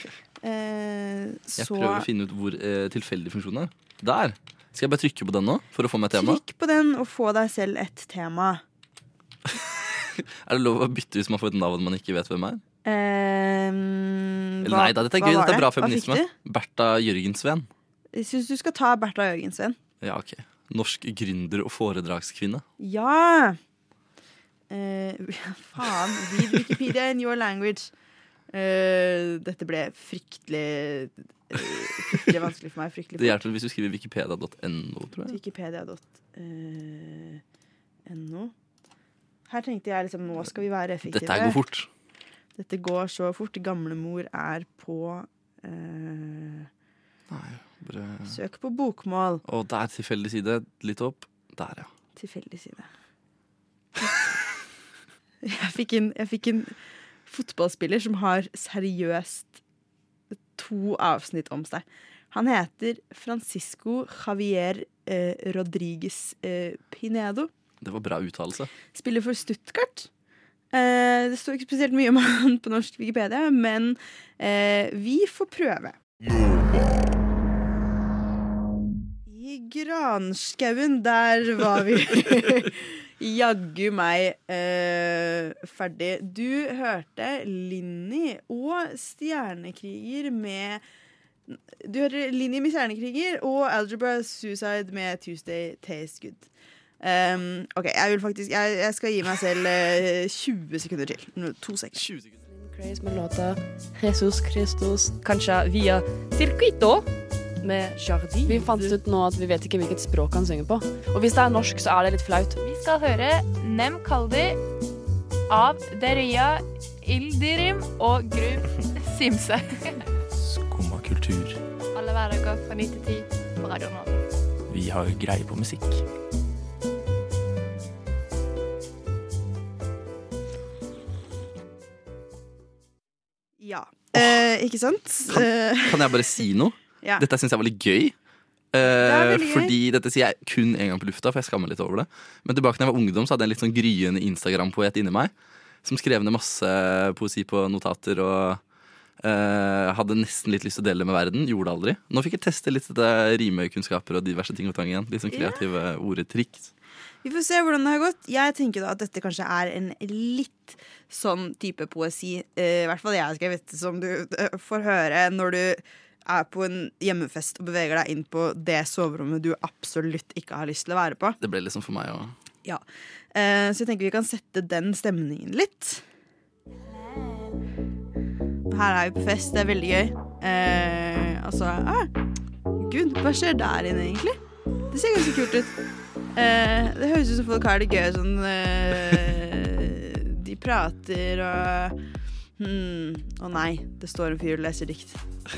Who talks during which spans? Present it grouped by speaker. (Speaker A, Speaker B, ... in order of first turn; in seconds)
Speaker A: 0.4-2.1, 6.1-8.6, 12.8-16.3, 18.1-19.8, 22.8-23.6, 24.7-27.9, 28.5-33.4, 35.3-37.4, 38.1-38.5, 39.5-41.6, 42.6-46.7, 48.3-49.4, 52.1-52.9, 55.4-56.7, 57.3-59.6, 60.5-67.5, 68.9-70.1, 70.7-76.0, 79.3-90.8, 91.5-96.5, 97.0-102.1, 133.6-136.2, 138.9-139.7, 155.3-155.6, 157.2-171.4, 173.3-176.0, 178.7-182.1, 182.8-184.4, 184.9-185.7, 186.3-192.0, 192.6-195.2
Speaker B: 1.6-6.4, 9.5-12.6, 14.6-17.7, 20.0-22.6, 33.2-35.4, 41.0-41.9, 47.3-48.4, 49.4-51.9, 67.8-68.7, 135.3-138.1, 138.7-145.3, 145.8-148.6, 149.2-156.7, 171.4-172.3
Speaker C: 102.4-107.0, 107.6-112.6
Speaker D: 112.6-114.6, 115.5-120.0, 121.9-124.2
Speaker E: 120.3-121.6, 124.7-126.0